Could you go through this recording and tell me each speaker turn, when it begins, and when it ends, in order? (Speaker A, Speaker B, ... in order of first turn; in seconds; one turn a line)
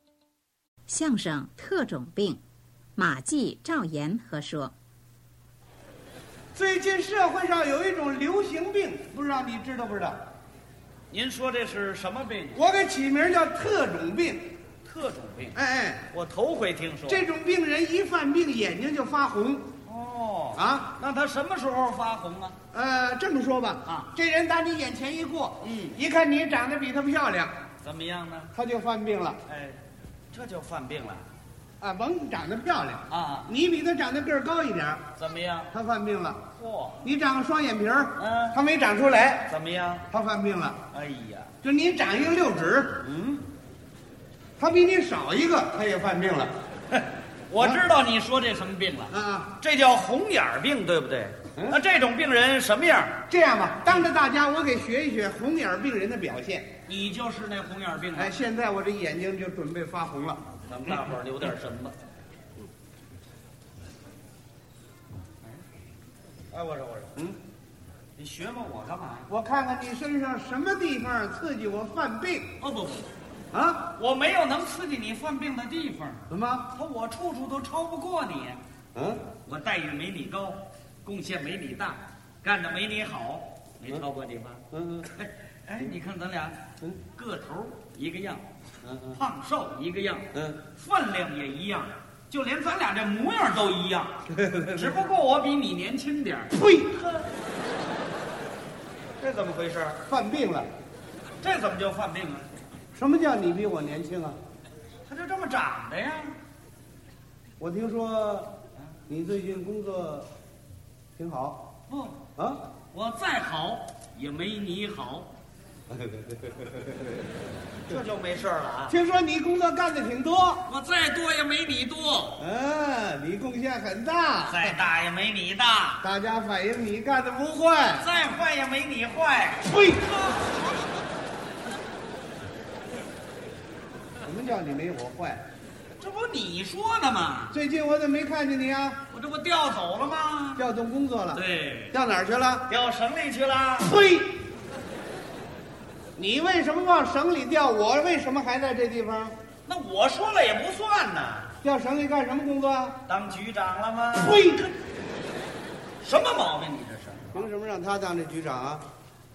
Speaker A: 0.9-2.4
Speaker A: 3.0-4.7
Speaker B: 6.5-10.2
Speaker C: 11.1-12.6
Speaker B: 12.5-14.5
Speaker C: 14.8-15.6
Speaker B: 15.5-16.0
Speaker C: 16.1-17.2
Speaker B: 17.1-19.6
Speaker C: 19.8-22.6
Speaker B: 20.5-20.9
Speaker B: 22.7-27.5
Speaker C: 23.8-24.1
Speaker C: 25.6-26.0
Speaker C: 27.8-28.5
Speaker B: 28.5-29.4
Speaker C: 29.5-29.8
Speaker C: 30.3-31.3
Speaker B: 31.8-35.0
Speaker C: 33.1-33.5
Speaker C: 35.1-35.7
Speaker B: 35.7-36.4
Speaker C: 36.5-37.1
Speaker B: 37.0-39.5
Speaker C: 38.2-38.6
Speaker C: 39.5-40.0
Speaker B: 40.1-40.8
Speaker C: 40.9-41.5
Speaker B: 41.6-43.0
Speaker C: 43.0-43.4
Speaker B: 44.6-46.5
Speaker C: 46.9-53.2
Speaker B: 47.6-47.8
Speaker B: 49.1-49.5
Speaker B: 53.3-56.7
Speaker C: 56.9-58.3
Speaker B: 58.1-60.4
Speaker C: 60.7-61.9
Speaker C: 66.5-67.2
Speaker C: 68.2-69.3
Speaker B: 69.3-72.5
Speaker C: 72.6-73.1
Speaker B: 73.5-73.8
Speaker C: 73.9-78.6
Speaker B: 76.3-76.7
Speaker B: 78.9-79.2
Speaker C: 79.4-88.5
Speaker B: 84.7-85.1
Speaker B: 88.8-89.2
Speaker C: 89.1-94.2
Speaker B: 90.3-90.6
Speaker B: 94.3-94.9
Speaker C: 94.7-96.8
Speaker B: 96.5-97.0
Speaker C: 99.2-100.0
Speaker B: 100.0-100.7
Speaker C: 101.4-102.5
Speaker B: 102.9-104.4
Speaker C: 105.0-106.4
Speaker B: 107.6-108.5
Speaker B: 109.1-110.3
Speaker B: 111.2-111.6
Speaker C: 111.9-112.2
Speaker B: 112.3-112.6
Speaker C: 112.9-115.3
Speaker B: 115.9-117.3
Speaker C: 117.9-119.0
Speaker B: 118.9-120.6
Speaker C: 120.7-122.4
Speaker B: 122.4-124.8
Speaker C: 124.5-126.0
Speaker B: 126.0-128.1
Speaker C: 128.0-130.4
Speaker B: 129.6-130.3
Speaker B: 134.2-135.4
Speaker C: 136.0-137.6
Speaker B: 137.5-139.0
Speaker C: 139.1-140.7
Speaker B: 140.6-142.7
Speaker C: 141.3-141.9
Speaker C: 142.7-144.0
Speaker B: 143.8-144.3
Speaker B: 146.2-149.3
Speaker C: 149.7-151.5
Speaker B: 151.6-153.0
Speaker C: 153.0-154.5
Speaker B: 154.1-154.7
Speaker C: 156.0-157.5
Speaker B: 157.3-158.8